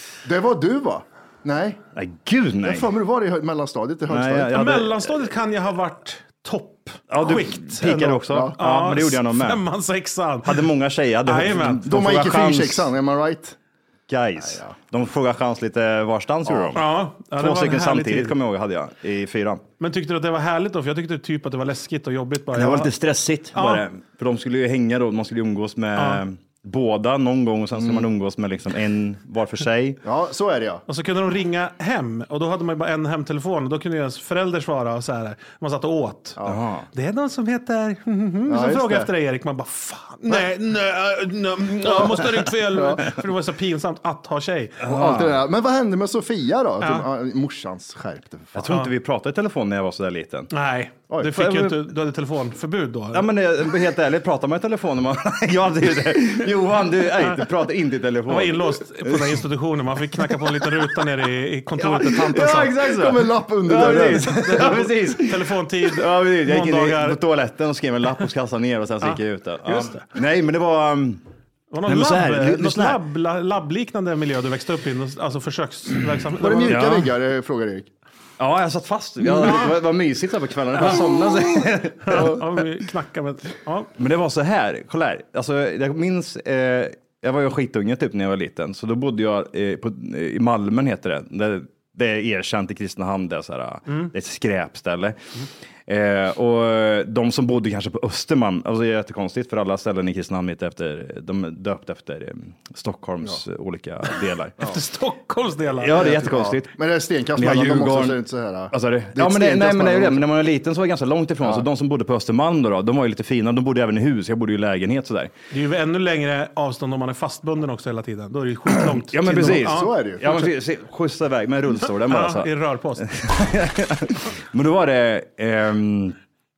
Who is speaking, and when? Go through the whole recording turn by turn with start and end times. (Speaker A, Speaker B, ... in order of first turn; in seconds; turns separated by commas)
Speaker A: 0.2-1.8, Speaker B: 1.9-2.9, Speaker A: 2.6-4.6, Speaker B: 4.1-5.2, Speaker C: 4.5-10.7, Speaker B: 7.1-9.6, Speaker A: 8.3-8.6, Speaker B: 10.5-12.9, Speaker C: 11.2-11.9, Speaker A: 11.8-13.6, Speaker B: 14.1-19.6, Speaker A: 16.5-16.8, Speaker C: 16.7-18.4, Speaker C: 19.8-22.9, Speaker B: 22.5-30.0, Speaker C: 23.5-23.8, Speaker C: 26.0-26.2, Speaker A: 27.8-28.1, Speaker A: 30.0-30.8, Speaker C: 30.9-36.4, Speaker B: 36.4-36.9, Speaker C: 36.9-44.8, Speaker A: 38.5-39.1, Speaker A: 41.9-43.0, Speaker B: 44.8-45.4, Speaker A: 44.9-48.6, Speaker B: 48.5-50.5, Speaker C: 50.5-53.2, Speaker B: 51.4-51.7, Speaker B: 53.1-59.4, Speaker C: 58.3-62.8, Speaker B: 61.8-71.2, Speaker A: 62.9-64.4, Speaker C: 63.9-67.2, Speaker C: 69.0-70.1, Speaker C: 71.7-76.8, Speaker B: 71.9-73.0, Speaker A: 76.4-77.9, Speaker B: 76.7-77.1, Speaker B: 78.4-82.4, Speaker C: 79.4-79.7, Speaker C: 82.0-83.9, Speaker A: 82.1-82.4, Speaker B: 84.0-95.2, Speaker B: 95.9-104.6, Speaker C: 104.6-106.2, Speaker B: 105.8-106.8, Speaker A: 106.0-110.2, Speaker B: 107.3-108.2, Speaker B: 108.7-115.3, Speaker C: 115.5-120.4, Speaker B: 119.1-126.2, Speaker A: 119.3-120.5, Speaker C: 122.1-123.1